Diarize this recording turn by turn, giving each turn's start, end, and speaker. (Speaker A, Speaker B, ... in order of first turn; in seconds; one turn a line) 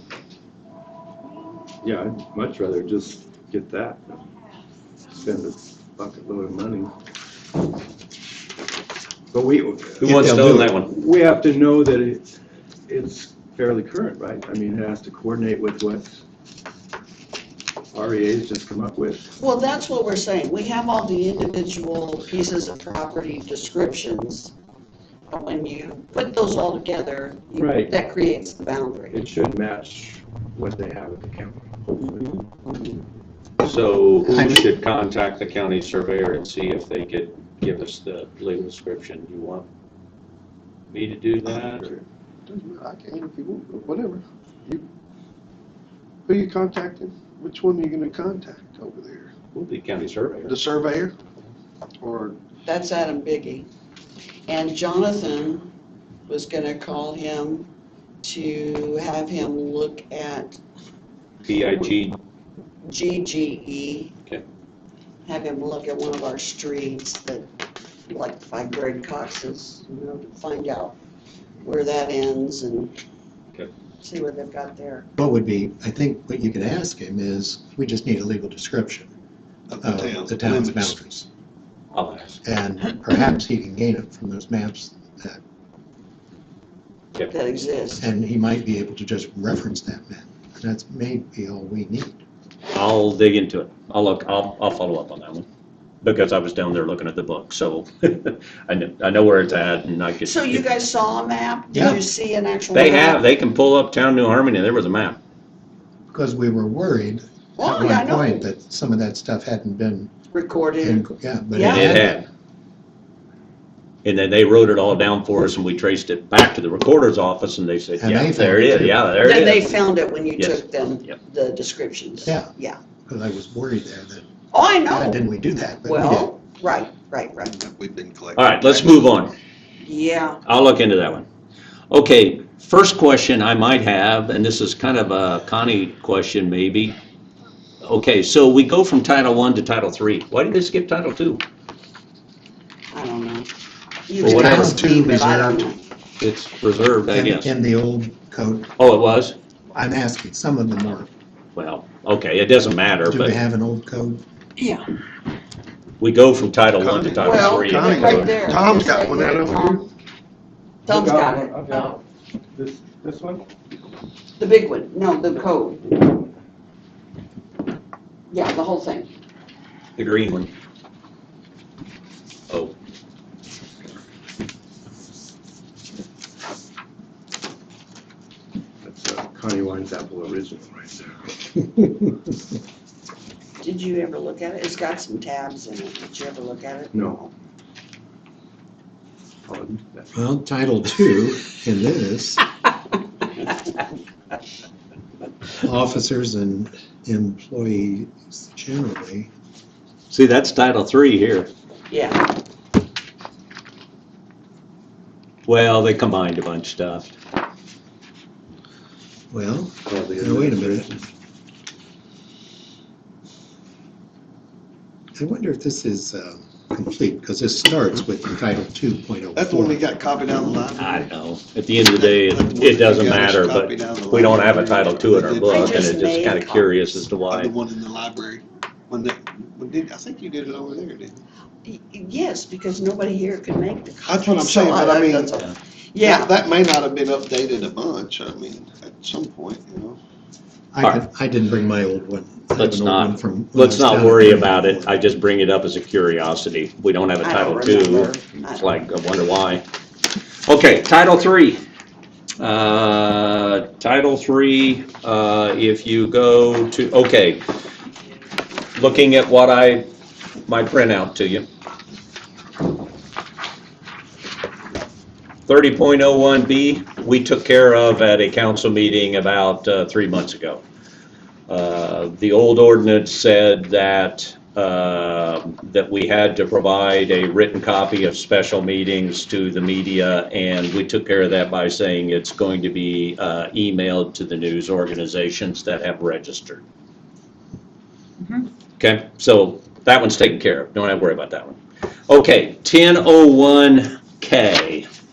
Speaker A: 1.8-4.2
Speaker A: 5.1-6.9
Speaker A: 9.3-10.3
Speaker B: 10.0-10.9
Speaker C: 10.0-10.7
Speaker A: 10.8-12.3
Speaker A: 12.9-16.2
Speaker A: 17.9-19.3
Speaker D: 19.4-24.5
Speaker D: 25.3-29.2
Speaker A: 27.6-28.0
Speaker A: 29.1-31.6
Speaker D: 32.0-33.0
Speaker B: 33.6-39.7
Speaker C: 34.3-34.7
Speaker B: 40.9-41.9
Speaker E: 41.5-44.8
Speaker E: 46.3-49.3
Speaker B: 49.5-50.5
Speaker E: 50.5-51.1
Speaker E: 52.0-52.4
Speaker D: 52.6-53.7
Speaker D: 54.5-55.7
Speaker D: 56.3-57.7
Speaker D: 58.2-60.6
Speaker B: 61.5-62.2
Speaker D: 62.8-64.1
Speaker D: 65.3-67.5
Speaker D: 68.1-71.0
Speaker D: 71.6-72.9
Speaker D: 74.0-75.1
Speaker C: 75.2-79.1
Speaker E: 79.7-81.0
Speaker C: 79.8-81.3
Speaker B: 81.9-82.4
Speaker C: 82.4-85.4
Speaker D: 87.3-88.0
Speaker C: 88.0-92.2
Speaker B: 92.7-95.5
Speaker B: 96.0-100.6
Speaker D: 100.2-103.2
Speaker C: 101.7-102.0
Speaker B: 102.7-105.2
Speaker C: 106.1-110.1
Speaker D: 107.6-108.5
Speaker D: 110.3-112.0
Speaker C: 110.8-112.2
Speaker B: 111.5-112.3
Speaker B: 114.0-119.8
Speaker C: 118.0-119.1
Speaker D: 119.2-122.8
Speaker B: 120.4-121.2
Speaker C: 123.1-124.3
Speaker D: 124.5-125.2
Speaker C: 124.9-126.3
Speaker D: 125.8-127.5
Speaker E: 127.5-129.1
Speaker B: 128.4-129.3
Speaker D: 129.8-130.4
Speaker B: 130.4-131.3
Speaker B: 131.9-136.9
Speaker B: 137.8-141.4
Speaker D: 142.9-143.5
Speaker D: 144.1-145.8
Speaker C: 144.2-145.7
Speaker B: 144.2-144.8
Speaker B: 146.2-147.5
Speaker C: 147.1-148.7
Speaker B: 148.8-149.4
Speaker C: 149.7-151.1
Speaker B: 151.6-153.4
Speaker C: 153.1-154.2
Speaker D: 154.6-154.8
Speaker B: 156.0-158.4
Speaker E: 156.8-159.8
Speaker D: 157.2-159.9
Speaker D: 160.9-161.9
Speaker A: 160.9-162.0
Speaker A: 162.5-163.5
Speaker D: 164.4-166.2
Speaker D: 168.3-169.1
Speaker B: 170.0-170.5
Speaker A: 178.8-181.3
Speaker D: 183.6-187.1
Speaker A: 186.9-187.3
Speaker A: 189.5-190.1
Speaker C: 190.1-192.5
Speaker C: 195.6-199.3
Speaker B: 200.1-201.5
Speaker D: 201.9-202.3
Speaker B: 205.5-207.2
Speaker C: 209.3-210.9
Speaker A: 209.9-211.1
Speaker C: 215.2-219.8
Speaker E: 219.4-221.1
Speaker B: 220.8-227.5
Speaker E: 221.8-225.9
Speaker D: 225.5-227.1
Speaker E: 227.2-231.2
Speaker D: 231.7-235.3
Speaker E: 234.0-235.5
Speaker D: 235.9-236.3
Speaker E: 236.0-240.0
Speaker C: 240.7-244.9
Speaker B: 242.5-249.7
Speaker D: 247.2-248.7
Speaker B: 250.5-251.6
Speaker B: 252.4-257.4
Speaker B: 258.8-259.9
Speaker B: 260.5-261.5
Speaker B: 265.5-270.6
Speaker B: 271.5-286.6
Speaker B: 288.8-294.9